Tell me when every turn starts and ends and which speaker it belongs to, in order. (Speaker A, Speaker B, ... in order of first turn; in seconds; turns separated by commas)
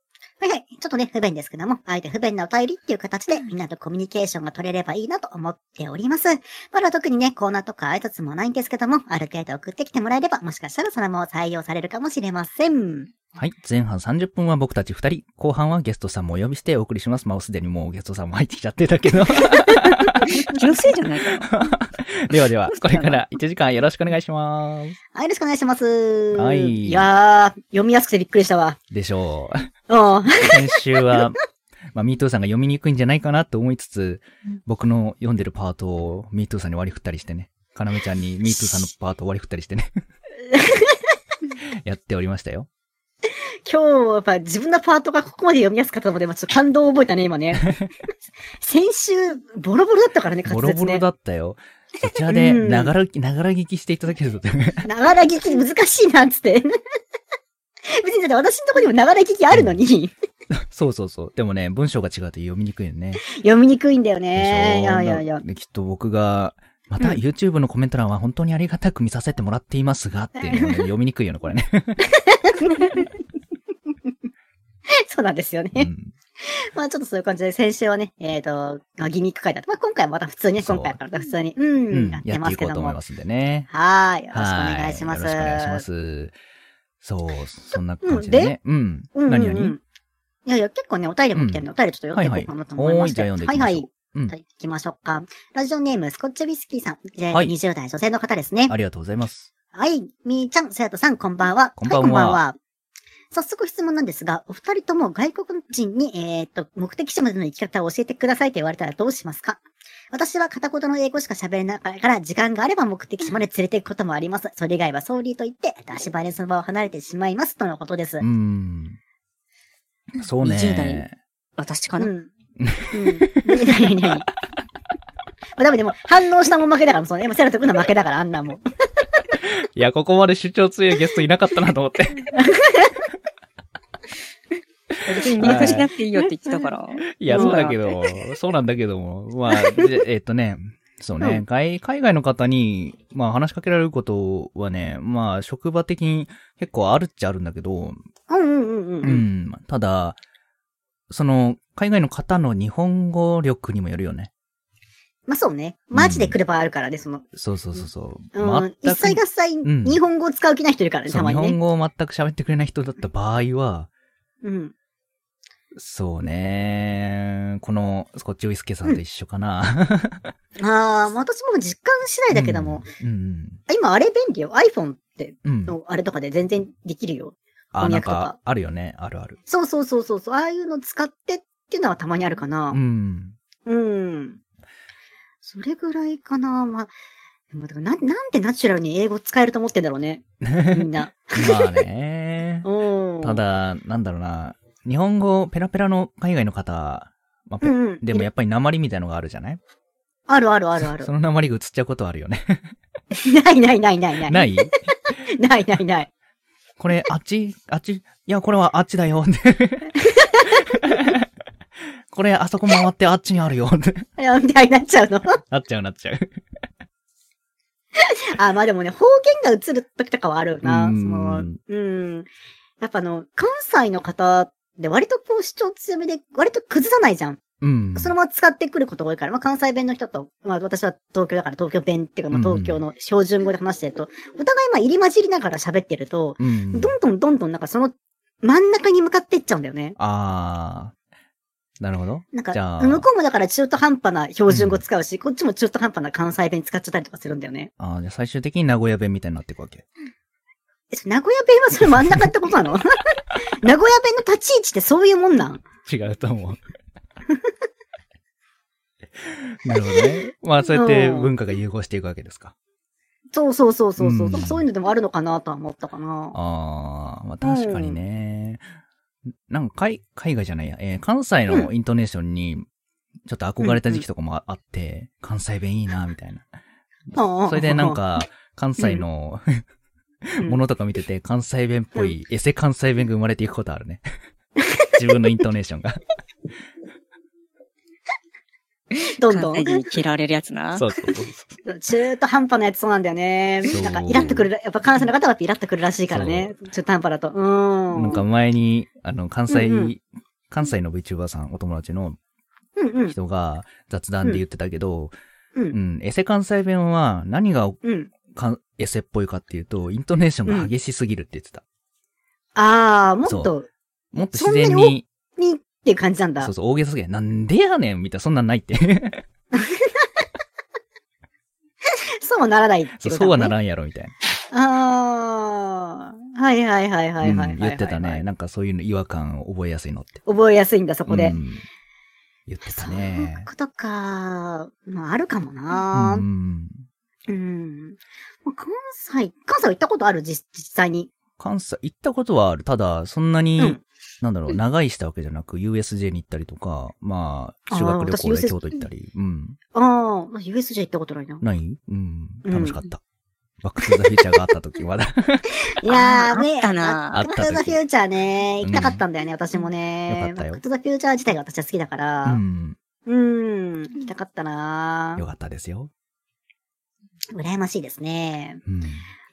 Speaker A: 0.4-13.1, Speaker B: 13.4-20.4, Speaker C: 20.3-21.6, Speaker B: 21.3-25.0, Speaker C: 22.7-23.2, Speaker A: 25.1-28.8, Speaker B: 26.3-27.1, Speaker B: 28.9-29.7, Speaker A: 29.9-31.2, Speaker B: 30.4-31.4, Speaker B: 31.9-40.0, Speaker A: 38.5-38.9, Speaker A: 40.5-41.0, Speaker B: 41.6-42.7, Speaker A: 43.6-47.7, Speaker A: 48.6-51.0, Speaker B: 50.5-54.8, Speaker A: 52.2-52.9, Speaker A: 54.8-56.8, Speaker A: 57.9-60.1, Speaker B: 59.5-59.8, Speaker B: 60.5-63.2, Speaker A: 63.2-65.4, Speaker B: 64.3-72.0, Speaker A: 70.4-70.8, Speaker A: 72.0-73.1, Speaker A: 74.9-75.9, Speaker B: 75.7-76.1, Speaker A: 76.4-83.0, Speaker B: 80.6-81.0, Speaker B: 81.9-83.7, Speaker A: 83.7-85.8, Speaker B: 84.3-86.3, Speaker B: 87.0-89.8, Speaker A: 88.0-88.5, Speaker A: 89.1-89.8, Speaker A: 90.5-98.8, Speaker B: 91.3-94.3, Speaker B: 98.7-99.5, Speaker A: 99.7-102.6, Speaker B: 101.8-102.4, Speaker A: 103.3-109.6, Speaker A: 110.1-118.2, Speaker B: 118.2-119.0, Speaker B: 120.2-121.1, Speaker C: 120.4-121.0, Speaker C: 121.6-122.1, Speaker A: 122.0-122.3, Speaker B: 122.6-123.7, Speaker A: 122.9-124.3, Speaker A: 125.6-128.7, Speaker B: 129.4-132.3, Speaker A: 132.3-133.0, Speaker C: 135.0-137.9, Speaker B: 135.4-135.9, Speaker A: 135.4-136.7, Speaker B: 137.1-148.0, Speaker A: 137.3-137.7, Speaker A: 148.3-149.2, Speaker B: 149.0-150.2, Speaker B: 151.1-154.3, Speaker A: 155.3-157.2, Speaker B: 155.9-156.3, Speaker B: 157.3-160.0, Speaker A: 158.3-161.6, Speaker B: 161.1-163.9, Speaker A: 164.4-164.7, Speaker B: 165.7-170.3, Speaker A: 170.6-172.9, Speaker B: 172.3-173.6, Speaker A: 173.7-178.3, Speaker B: 175.4-175.7, Speaker B: 177.7-179.4, Speaker A: 179.5-182.8, Speaker B: 182.7-183.3, Speaker A: 183.7-184.4, Speaker A: 185.4-186.9, Speaker A: 187.5-191.8, Speaker B: 190.4-190.8, Speaker B: 191.3-192.7, Speaker A: 192.6-193.4, Speaker B: 193.2-199.6, Speaker A: 197.6-198.3, Speaker A: 200.3-201.1, Speaker B: 201.0-202.7, Speaker A: 203.1-206.1, Speaker B: 204.2-204.8, Speaker B: 206.8-209.9, Speaker A: 210.0-210.7, Speaker B: 210.5-211.2, Speaker B: 212.1-214.1, Speaker A: 214.2-215.4, Speaker B: 215.5-216.3, Speaker A: 217.9-222.3, Speaker B: 220.6-221.6, Speaker A: 222.8-227.4, Speaker B: 227.6-228.1, Speaker A: 227.9-240.0, Speaker B: 232.3-232.8, Speaker B: 236.4-236.9, Speaker B: 240.0-240.9, Speaker B: 241.8-243.1, Speaker A: 242.3-247.7, Speaker B: 244.5-244.8, Speaker B: 247.8-249.8, Speaker A: 250.9-255.6, Speaker B: 251.9-252.2, Speaker B: 255.8-256.6, Speaker B: 259.2-262.5, Speaker A: 260.7-261.3, Speaker A: 263.3-266.4, Speaker B: 264.0-264.6, Speaker B: 266.3-268.6, Speaker A: 267.4-268.0, Speaker B: 269.5-272.6, Speaker B: 273.2-276.4, Speaker A: 273.6-274.0, Speaker B: 277.1-279.6, Speaker A: 277.1-278.0, Speaker A: 278.8-279.0, Speaker B: 280.4-284.0, Speaker A: 284.6-284.9, Speaker B: 284.9-286.0, Speaker A: 289.1-289.8, Speaker C: 289.3-290.9, Speaker B: 290.7-291.5, Speaker A: 291.6-298.2, Speaker B: 293.7-294.4, Speaker B: 296.1-296.6, Speaker B: 297.9-302.2, Speaker A: 299.5-299.9, Speaker A: 302.8-303.1, Speaker B: 303.1-305.1, Speaker B: 305.7-311.6, Speaker A: 307.8-308.1, Speaker A: 312.6-313.7, Speaker B: 313.2-313.5, Speaker B: 314.1-315.0, Speaker A: 314.3-316.5, Speaker B: 316.4-319.2, Speaker A: 319.5-320.0, Speaker A: 322.2-323.5, Speaker B: 323.0-324.1, Speaker A: 324.5-328.2, Speaker B: 327.2-330.2, Speaker A: 330.2-331.4, Speaker B: 331.1-331.6, Speaker B: 332.5-333.5, Speaker A: 332.6-336.2, Speaker B: 335.9-336.8, Speaker A: 337.3-341.1, Speaker B: 341.4-349.6, Speaker A: 347.7-348.6, Speaker A: 349.7-351.4, Speaker B: 351.4-353.0, Speaker A: 352.4-352.8, Speaker B: 353.6-355.5, Speaker A: 355.5-362.4, Speaker C: 355.9-357.2, Speaker B: 357.1-357.8, Speaker B: 358.6-359.0, Speaker B: 360.1-360.6, Speaker B: 362.2-362.8, Speaker A: 363.1-365.2, Speaker B: 365.2-365.9, Speaker A: 367.3-368.6, Speaker B: 368.6-369.1